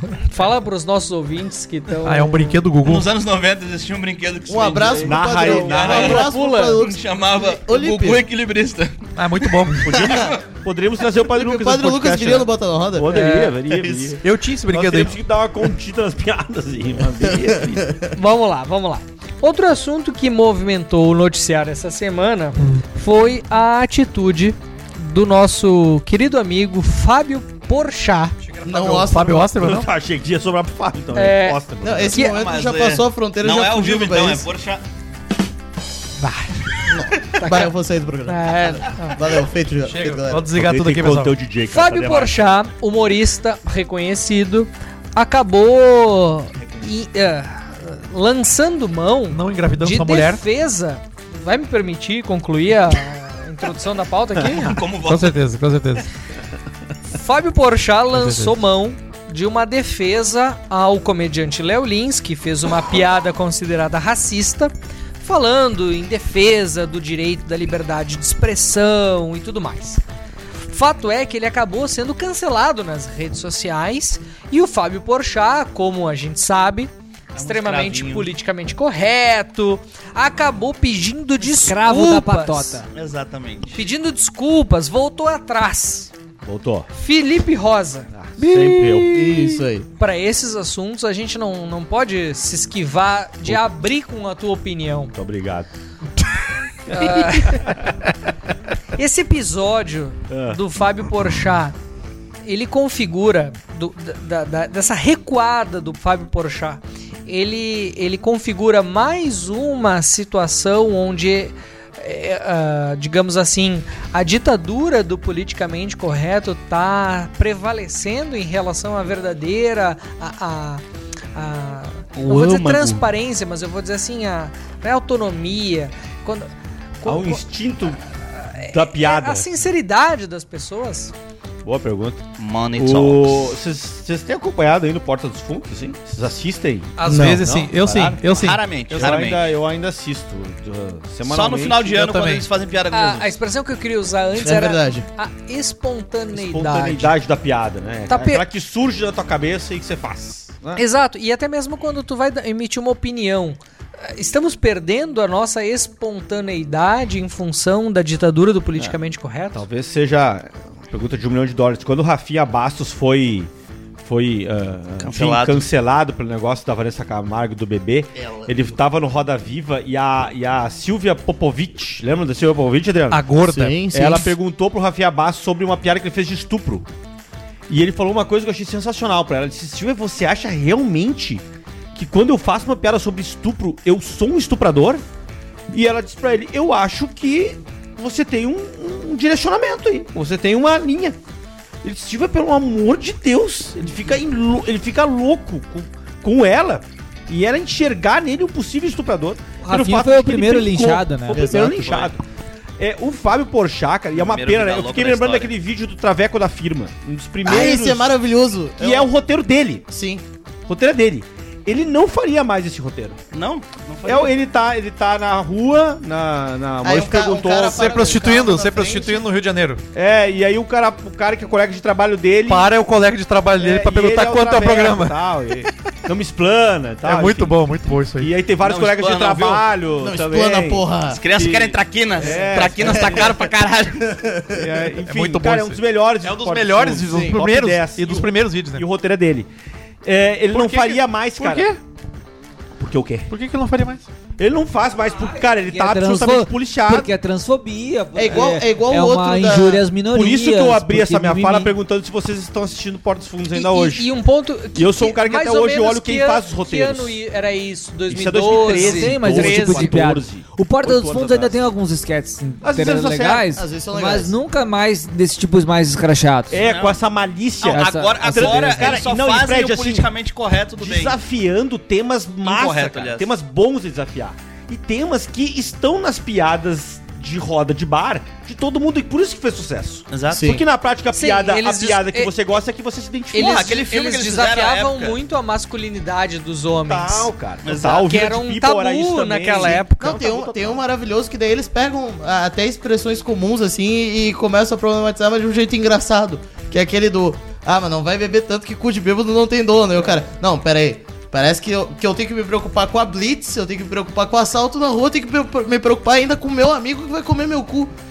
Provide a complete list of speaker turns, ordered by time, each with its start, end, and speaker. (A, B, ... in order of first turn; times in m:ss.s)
0:00.3-0:02.6 A
0:02.0-0:03.1 B
0:02.8-0:10.4 C
0:04.5-0:08.2 D
0:05.0-0:06.3 E
0:05.4-0:06.8 A
0:09.2-0:10.1 B
0:09.9-0:10.3 D
0:09.9-0:17.9 E
0:11.2-0:14.2 D
0:13.1-0:13.6 A
0:14.2-0:15.2 B
0:17.3-0:17.7 D
0:18.1-0:28.3 A
0:22.6-0:22.8 B
0:28.4-0:29.9 B
0:28.6-0:29.5 D
0:29.6-0:32.2 E
0:31.1-0:31.6 A
0:31.8-0:34.5 D
0:32.1-0:32.4 A
0:32.1-0:34.8 C
0:36.2-0:36.7 A
0:36.9-0:40.5 D
0:37.4-0:37.7 A
0:38.3-0:39.2 A
0:39.8-0:41.4 B
0:40.5-0:42.5 E
0:41.7-0:54.8 A
0:49.3-0:50.4 B
0:54.5-0:56.1 B
0:54.5-0:55.4 C
0:57.1-1:10.0 A
0:58.1-0:58.5 B
1:10.7-1:22.8 A
1:17.3-1:18.3 C
1:21.4-1:22.9 F
1:22.9-1:23.9 C
1:23.7-1:26.1 A
1:26.4-1:26.9 E
1:26.9-1:28.1 A
1:28.1-1:29.2 E
1:28.4-1:29.0 B
1:28.9-1:35.2 A
1:29.1-1:29.9 D
1:35.1-1:35.7 E
1:36.9-1:37.7 A
1:37.0-1:38.1 E
1:39.0-1:41.8 A
1:40.3-1:40.6 E
1:42.4-2:00.8 A
2:01.4-2:07.4 A
2:02.2-2:03.0 E
2:07.0-2:08.0 E
2:08.4-2:11.1 A
2:08.7-2:09.5 E
2:11.6-2:12.2 E
2:12.4-2:13.5 C
2:12.8-2:18.2 E
2:17.0-2:19.2 B
2:17.1-2:17.4 D
2:17.9-2:19.5 C
2:18.9-2:21.9 E
2:21.3-2:23.4 C
2:21.9-2:22.5 B
2:22.9-2:27.2 A
2:24.4-2:25.1 D
2:26.3-2:30.8 E
2:28.1-2:28.4 A
2:30.8-2:39.7 A
2:39.5-2:53.3 E
2:45.0-2:45.6 C
2:48.2-2:48.8 C
2:53.1-2:53.8 B
2:53.5-2:54.3 D
2:53.9-2:56.9 E
2:57.7-3:01.4 E
3:02.0-3:05.0 E
3:05.7-3:11.2 E
3:11.8-3:22.2 E
3:19.6-3:21.7 F
3:21.3-3:22.2 C
3:22.8-3:28.1 E
3:24.1-3:25.5 C
3:27.4-3:29.2 D
3:28.8-3:29.9 E
3:29.9-3:30.2 D
3:30.7-3:33.2 E
3:33.3-3:34.3 C
3:34.0-3:37.9 E
3:36.8-3:39.3 D
3:37.7-3:39.8 B
3:39.9-3:42.7 E
3:42.5-3:45.2 B
3:43.6-3:47.6 E
3:47.0-3:48.3 B
3:48.2-3:53.3 E
3:48.6-3:49.7 C
3:50.0-3:51.2 D
3:51.1-3:54.0 C
3:52.2-3:53.4 D
3:54.0-3:54.8 D
3:54.6-3:59.5 E
3:55.0-3:58.9 B
3:57.1-3:57.4 D
4:00.0-4:01.7 E
4:00.5-4:01.8 B
4:02.8-4:03.3 E
4:03.3-4:04.1 B
4:04.4-4:07.1 E
4:05.1-4:11.8 F
4:08.2-4:09.9 D
4:10.1-4:14.1 E
4:13.5-4:20.1 A
4:14.8-4:17.2 E
4:18.1-4:21.6 E
4:18.7-4:26.6 F
4:22.6-4:23.5 E
4:23.5-4:24.3 D
4:26.5-4:30.1 E
4:26.6-4:27.0 C
4:27.6-4:31.2 C
4:27.6-4:29.1 F
4:30.8-4:43.7 E
4:32.4-4:33.3 C
4:40.1-4:40.5 C
4:40.3-4:40.6 D
4:41.1-4:42.3 A
4:43.3-4:47.3 A
4:43.4-4:45.2 C
4:46.9-4:50.8 E
4:47.6-4:48.1 C
4:47.9-4:50.3 A
4:50.0-5:07.9 D